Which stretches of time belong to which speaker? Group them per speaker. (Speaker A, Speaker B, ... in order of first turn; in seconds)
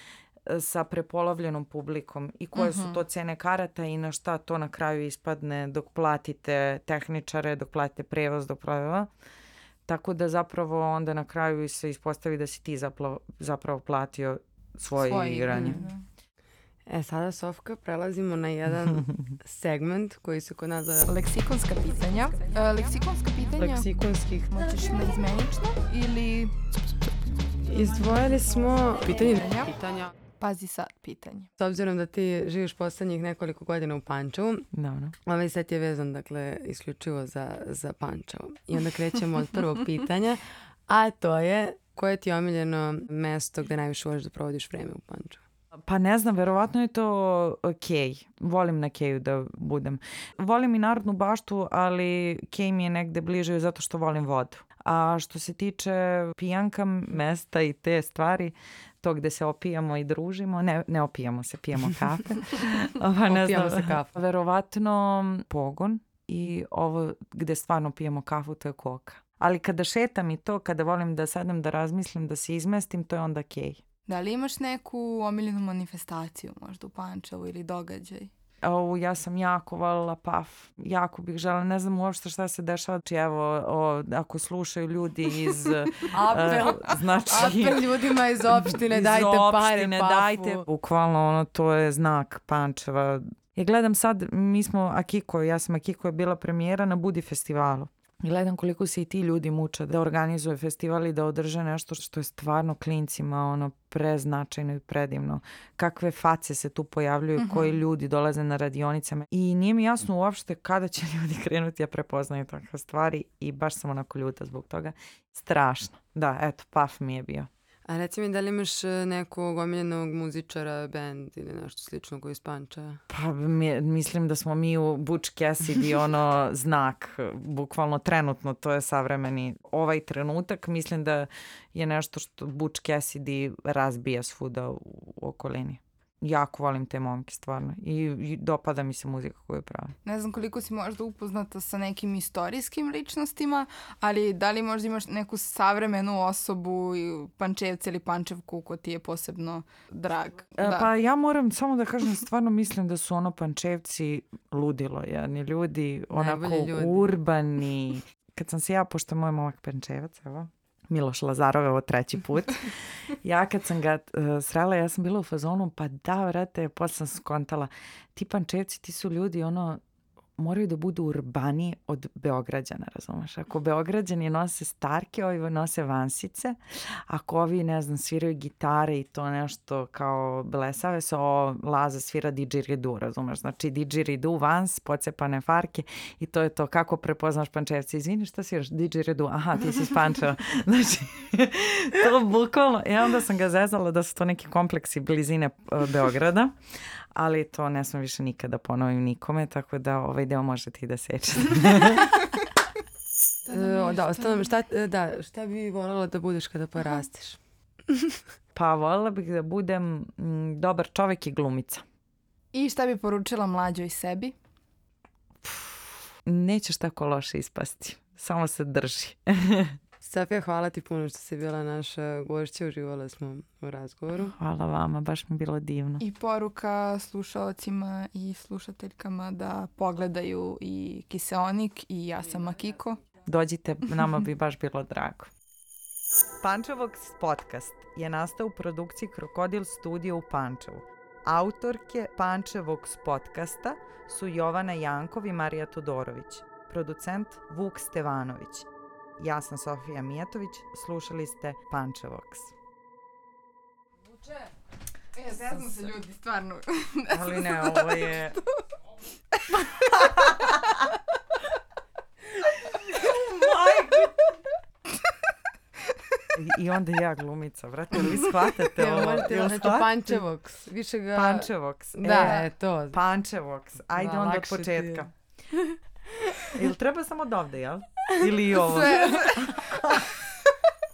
Speaker A: 0.5-9.1, 9.8-15.8, 34.7-35.1, 45.9-73.8, 78.6-117.5, 123.1-139.9, 150.6-169.8, 170.4-196.5, 197.1-202.2, 208.5-211.8, 215.4-219.8, 224.2-226.0, 233.2-235.3, 236.4-248.7, 249.2-252.5, 257.1-258.4, 259.5-260.8, 262.6-264.2, 266.3-270.2, 271.1-275.1, 276.5-280.1
Speaker B: 2.5-3.0, 14.9-16.0, 21.1-23.9, 24.5-26.6, 29.2-29.7, 30.4-31.5, 74.1-78.3, 107.4-107.8, 140.0-150.9, 203.5-204.4, 212.5-214.3, 226.0-233.0, 255.1-258.4, 278.7-279.5
Speaker C: 16.9-21.1, 23.6-24.5, 27.6-30.1, 31.6-34.7, 35.2-45.4, 63.3-64.1, 86.1-90.6, 117.9-123.0, 156.1-157.1, 203.5-207.4, 207.9-208.2, 220.0-224.3, 268.7-273.0, 273.9-275.1